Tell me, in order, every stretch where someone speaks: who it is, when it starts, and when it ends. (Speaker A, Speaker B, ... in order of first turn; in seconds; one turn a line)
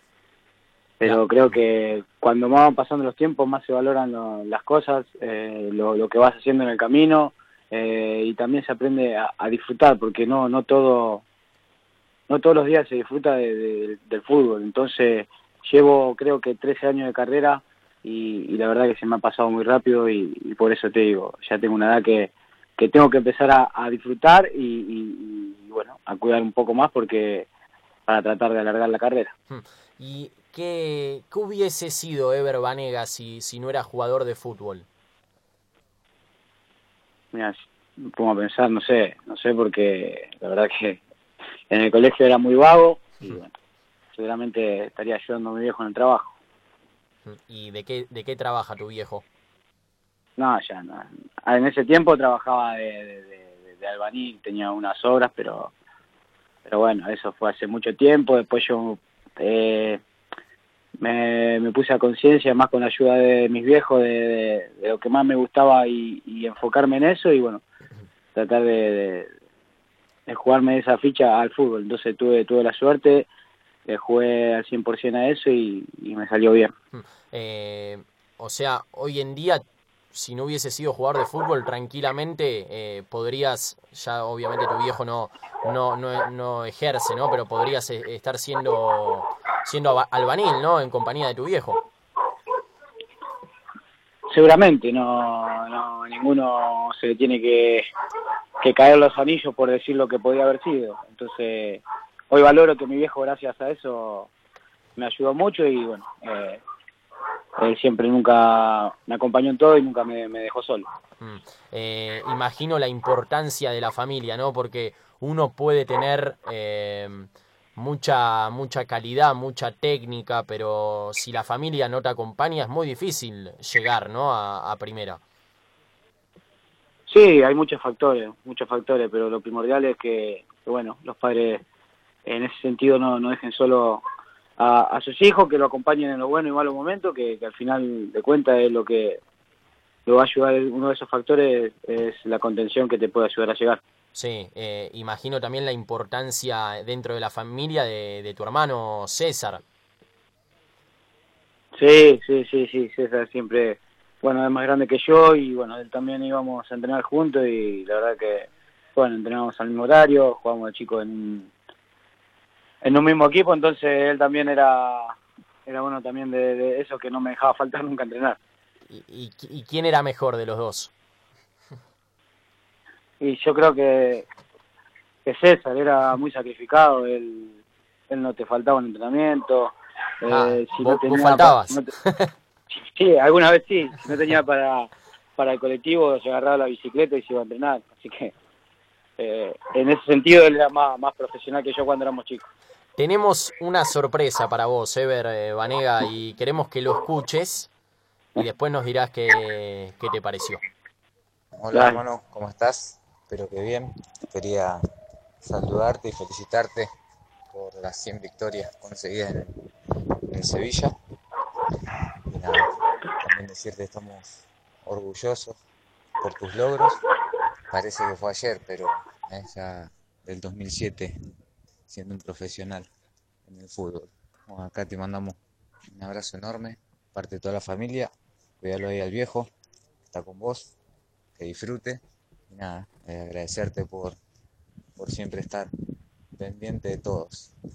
Speaker A: 1.0-11.2
Speaker A: 12.3-27.5
Speaker A: 28.1-29.3
Speaker B: 29.5-34.9
Speaker A: 37.3-41.0
Speaker A: 41.7-43.5
Speaker A: 44.1-46.3
Speaker B: 47.2-49.2
Speaker A: 50.4-55.7
Speaker A: 56.6-60.0
Speaker A: 61.0-67.6
Speaker A: 68.3-69.3
Speaker A: 70.3-73.3
Speaker A: 73.9-76.7
Speaker B: 76.9-91.8
Speaker A: 94.3-97.8
Speaker A: 98.6-104.3
Speaker A: 105.0-106.6
Speaker A: 107.6-110.9
Speaker B: 111.2-125.2
Speaker A: 127.1-131.6
Speaker A: 132.2-134.0
Speaker A: 134.6-139.2
Speaker A: 140.1-143.8
Speaker B: 144.1-149.6
Speaker A: 151.8-161.5
Speaker A: 162.8-165.2
Speaker A: 165.7-168.4
Speaker B: 168.9-170.9
Speaker A: 173.2-174.3
Speaker A: 175.2-177.6
Speaker A: 178.1-181.9
Speaker B: 180.3-182.3
Speaker A: 182.7-188.3
Speaker A: 189.2-192.5
Speaker B: 193.0-197.7
Speaker B: 198.4-200.6
Speaker C: 201.6-204.8
Speaker A: 201.7-202.0
Speaker C: 205.4-206.9
Speaker C: 207.5-209.5
Speaker C: 210.3-210.9
Speaker C: 212.3-212.7
Speaker C: 213.2-214.3
Speaker C: 214.8-215.6
Speaker C: 216.2-217.0
Speaker C: 217.7-221.1
Speaker C: 221.9-222.9
Speaker C: 223.4-225.4
Speaker C: 225.9-229.5
Speaker C: 230.1-230.7
Speaker C: 231.4-234.2
Speaker C: 235.0-235.7
Speaker C: 236.4-237.5